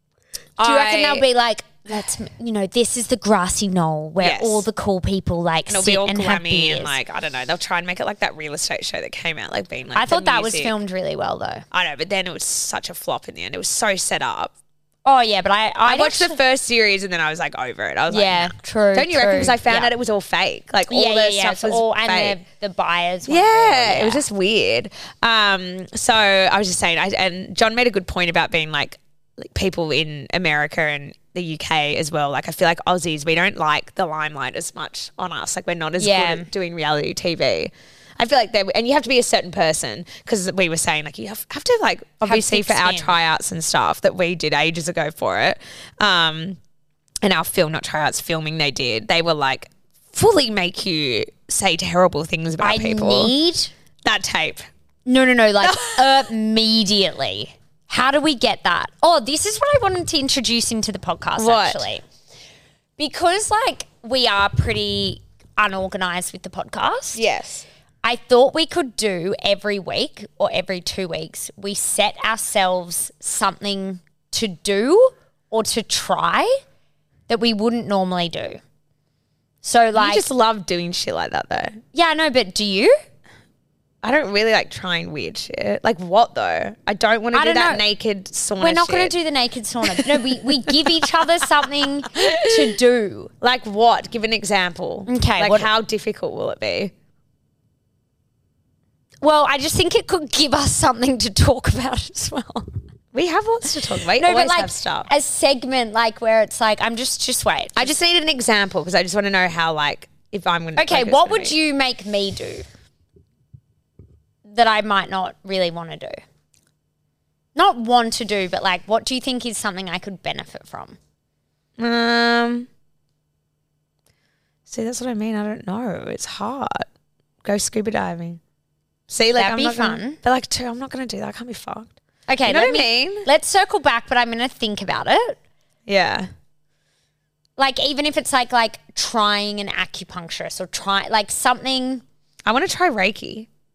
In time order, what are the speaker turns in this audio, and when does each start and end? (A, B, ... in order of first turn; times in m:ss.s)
0:00.6-0:01.3 A
0:00.6-0:07.0 B
0:04.2-0:04.7 A
0:05.7-0:10.7 A
0:09.9-0:11.6 B
0:11.7-0:14.5 A
0:15.0-0:16.4 B
0:15.9-0:22.4 A
0:18.1-0:19.9 B
0:20.9-0:24.2 B
0:23.3-0:46.6 A
0:36.0-0:36.5 B
0:42.2-0:43.2 B
0:47.2-0:53.3 A
0:52.6-0:53.7 B
0:54.0-0:54.6 A
0:55.1-1:02.0 B
0:55.6-0:56.3 A
1:01.4-1:01.9 A
1:03.0-1:07.2 B
1:07.2-1:07.7 A
1:08.0-1:16.5 B
1:17.3-1:18.6 B
1:19.6-1:20.3 B
1:20.0-1:21.8 A
1:21.9-1:23.0 B
1:24.0-1:29.1 A
1:27.3-1:27.8 B
1:28.6-1:33.3 B
1:29.9-1:31.1 A
1:32.1-1:32.8 A
1:33.4-1:36.9 A
1:35.1-1:35.7 B
1:39.2-1:42.7 B
1:43.1-1:45.1 A
1:44.1-1:47.9 B
1:47.8-1:51.5 A
1:50.8-1:52.6 B
1:54.5-1:56.2 B
1:57.6-2:01.0 B
2:01.8-2:02.7 A
2:04.7-2:06.9 A
2:07.4-2:08.4 A
2:09.1-2:11.9 A
2:09.4-2:10.2 B
2:12.3-2:15.4 B
2:12.5-2:13.3 A
2:15.9-2:16.3 A
2:17.6-2:22.0 B
2:22.4-2:23.5 A